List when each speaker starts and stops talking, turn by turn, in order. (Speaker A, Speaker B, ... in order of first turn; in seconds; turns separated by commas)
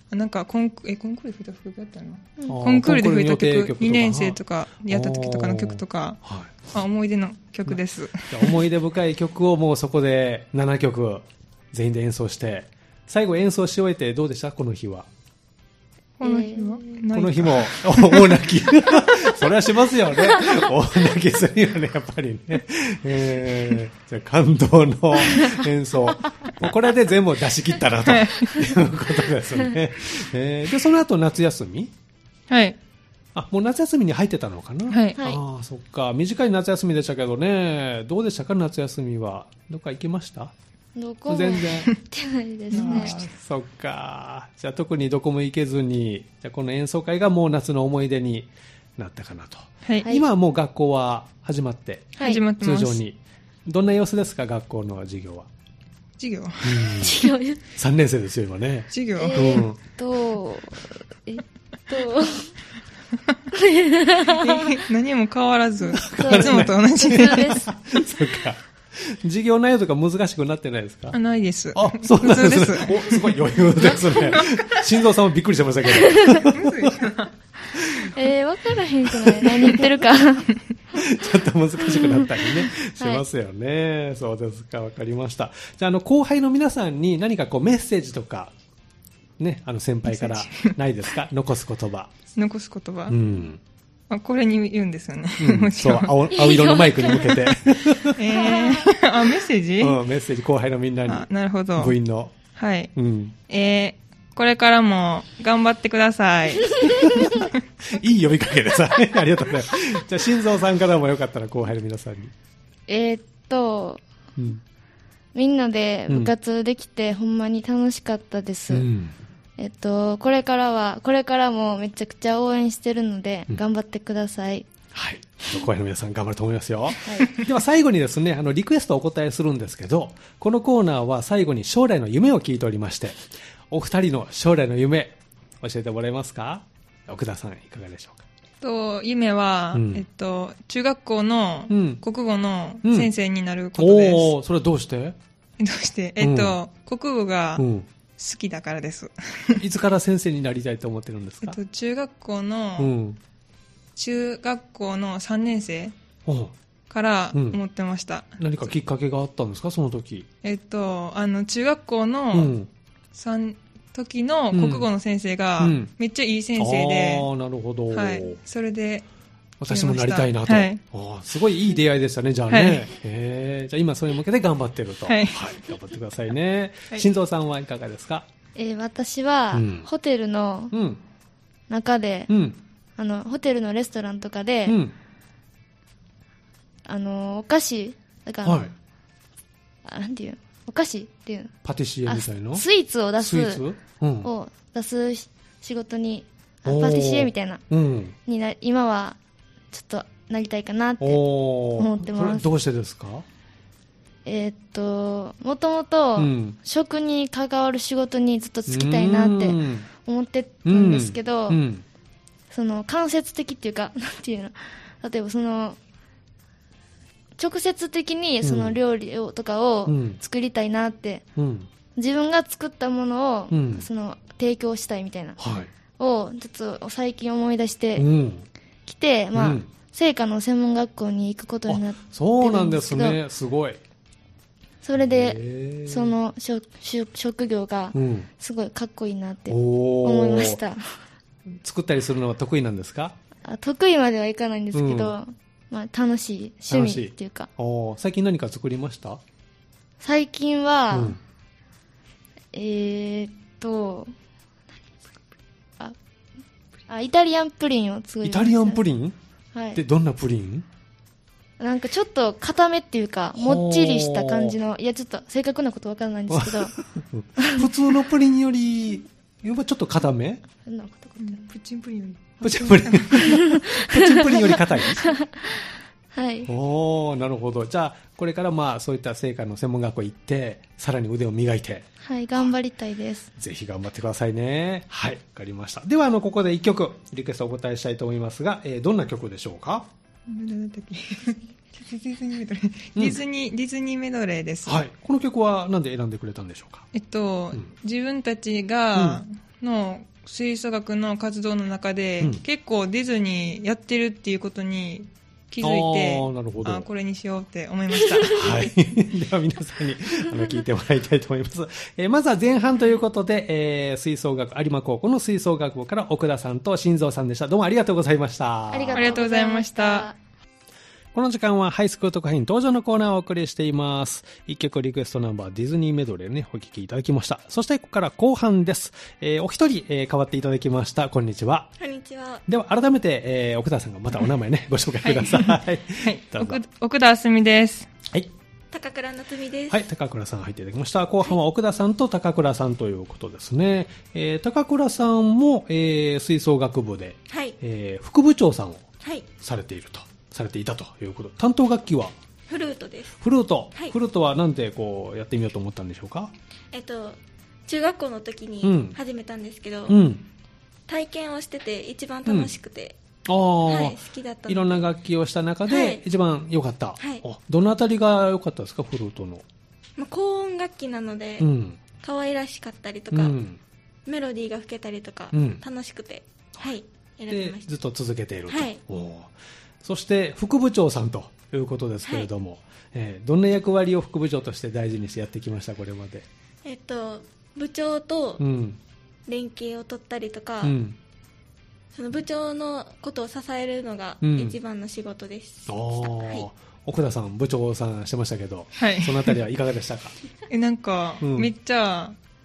Speaker A: 0.1-6.2, Speaker B: 2.5-6.7, Speaker A: 6.7-8.6, Speaker B: 7.7-15.1, Speaker A: 16.2-18.4, Speaker C: 16.2-17.0, Speaker B: 17.1-31.9, Speaker A: 28.1-28.5, Speaker A: 32.5-32.8, Speaker B: 33.3-40.5, Speaker A: 34.9-35.2, Speaker C: 35.1-35.4, Speaker C: 41.0-43.1, Speaker B: 41.3-41.9, Speaker A: 42.7-43.3, Speaker B: 42.7-55.5, Speaker C: 52.2-52.4, Speaker A: 52.2-53.0, Speaker A: 56.2-57.1, Speaker B: 56.6-59.8, Speaker C: 57.0-57.6, Speaker A: 58.9-59.6, Speaker C: 59.2-62.5, Speaker C: 63.5-64.8, Speaker A: 64.3-67.7, Speaker B: 65.9-71.2, Speaker C: 66.1-67.7, Speaker A: 71.1-74.8, Speaker B: 71.7-77.0, Speaker C: 76.1-76.4, Speaker A: 76.5-77.3, Speaker B: 77.7-78.1, Speaker C: 78.0-81.0, Speaker B: 79.0-79.8, Speaker B: 80.9-88.5, Speaker C: 81.8-82.4, Speaker C: 83.0-83.2, Speaker B: 89.4-92.1, Speaker A: 90.1-90.7, Speaker A: 92.3-93.2, Speaker B: 93.1-93.6, Speaker A: 94.1-96.2, Speaker B: 95.4-98.2, Speaker C: 96.3-97.5, Speaker A: 98.2-100.0, Speaker C: 98.3-98.9, Speaker B: 99.8-102.3, Speaker A: 101.1-101.9, Speaker A: 102.5-102.9, Speaker B: 102.9-103.3, Speaker A: 103.5-107.5, Speaker B: 107.9-112.3, Speaker C: 112.9-114.0, Speaker B: 114.3-114.6, Speaker C: 115.3-118.9, Speaker B: 118.7-119.1, Speaker C: 119.6-124.7, Speaker B: 124.9-138.2, Speaker C: 127.0-127.4, Speaker A: 138.6-144.3, Speaker B: 139.7-140.0, Speaker B: 141.7-142.0, Speaker B: 142.8-143.1, Speaker B: 143.8-145.2, Speaker A: 145.6-147.6, Speaker B: 146.2-146.6, Speaker B: 147.6-147.9, Speaker A: 148.2-149.6, Speaker B: 149.6-151.6, Speaker A: 151.4-152.9, Speaker B: 152.8-153.2, Speaker A: 153.9-155.9, Speaker B: 156.2-156.5, Speaker A: 156.9-158.3, Speaker B: 157.3-157.6, Speaker B: 158.4-160.3, Speaker A: 160.4-162.5, Speaker B: 162.3-162.7, Speaker A: 163.1-167.3, Speaker B: 164.5-164.9, Speaker B: 165.6-165.9, Speaker B: 166.6-168.4, Speaker A: 167.9-169.0, Speaker B: 169.6-178.2, Speaker A: 169.7-170.8, Speaker A: 172.5-172.8, Speaker A: 175.1-175.5, Speaker C: 178.6-180.7, Speaker B: 179.5-179.9, Speaker B: 180.7-181.0, Speaker C: 181.7-182.3, Speaker B: 182.3-182.6, Speaker C: 183.0-184.8, Speaker B: 184.7-184.9, Speaker C: 186.8-188.6, Speaker B: 188.4-188.7, Speaker C: 189.8-191.5, Speaker B: 191.6-192.7, Speaker C: 192.1-193.6, Speaker B: 193.2-194.3, Speaker C: 194.2-197.6, Speaker B: 196.6-198.1, Speaker C: 198.2-199.2, Speaker C: 199.7-202.5, Speaker B: 201.0-203.2, Speaker C: 204.2-211.6, Speaker B: 206.2-206.6, Speaker B: 208.7-209.9, Speaker B: 210.6-211.8, Speaker C: 212.5-215.8, Speaker C: 217.4-221.2, Speaker B: 218.4-218.8, Speaker B: 219.8-220.2, Speaker B: 221.3-221.7, Speaker C: 221.9-225.4, Speaker B: 223.5-223.8, Speaker B: 225.4-225.7, Speaker C: 226.0-228.1, Speaker B: 227.9-228.4, Speaker C: 228.8-233.2, Speaker B: 229.3-229.7, Speaker B: 231.7-233.8, Speaker C: 234.8-240.9, Speaker B: 235.0-236.1, Speaker B: 237.9-238.3, Speaker B: 239.5-240.6, Speaker B: 241.5-243.2, Speaker C: 243.4-247.5, Speaker B: 244.7-245.1, Speaker B: 246.7-249.2, Speaker C: 250.0-251.2, Speaker B: 250.9-251.2, Speaker C: 252.5-254.1, Speaker C: 254.8-255.2, Speaker C: 256.9-258.8, Speaker B: 258.2-259.1, Speaker C: 259.5-259.8, Speaker B: 259.7-260.6, Speaker C: 261.6-266.7, Speaker B: 263.3-264.6, Speaker B: 266.3-270.4, Speaker C: 267.4-267.7, Speaker C: 270.6-271.5, Speaker A: 271.2-273.4, Speaker B: 272.4-275.1, Speaker C: 273.2-276.5, Speaker B: 276.5-281.9, Speaker C: 282.0-283.3, Speaker B: 283.4-289.9, Speaker A: 290.3-294.8, Speaker B: 292.9-293.2, Speaker B: 294.6-296.9, Speaker A: 296.9-308.6, Speaker B: 298.9-299.2, Speaker B: 305.6-306.9, Speaker B: 308.3-319.2, Speaker C: 318.7-320.2, Speaker A: 318.9-320.1, Speaker B: 321.1-331.7, Speaker D: 331.8-332.4, Speaker B: 332.5-336.6, Speaker A: 335.0-337.9, Speaker D: 338.7-339.8, Speaker B: 339.7-352.1, Speaker D: 347.3-347.6, Speaker D: 349.0-349.3, Speaker D: 352.5-353.2, Speaker B: 353.2-356.3, Speaker D: 356.7-360.0, Speaker B: 358.6-359.0, Speaker B: 359.9-360.2, Speaker D: 360.9-362.9, Speaker B: 362.2-362.5, Speaker B: 363.2-369.4, Speaker D: 363.6-364.9, Speaker D: 365.6-366.0, Speaker D: 367.0-367.2, Speaker D: 370.0-371.5, Speaker B: 371.4-371.8, Speaker D: 372.0-373.4, Speaker B: 373.1-373.6, Speaker D: 374.1-377.7, Speaker B: 375.3-375.6, Speaker B: 377.3-386.2, Speaker D: 378.5-378.8, Speaker D: 382.0-382.3, Speaker D: 386.6-388.4, Speaker B: 388.4-388.8, Speaker D: 389.3-390.8, Speaker B: 390.6-391.0, Speaker D: 391.9-396.5, Speaker B: 394.2-394.6, Speaker B: 395.7-400.2, Speaker A: 398.8-399.4, Speaker A: 400.5-402.1, Speaker B: 401.2-401.5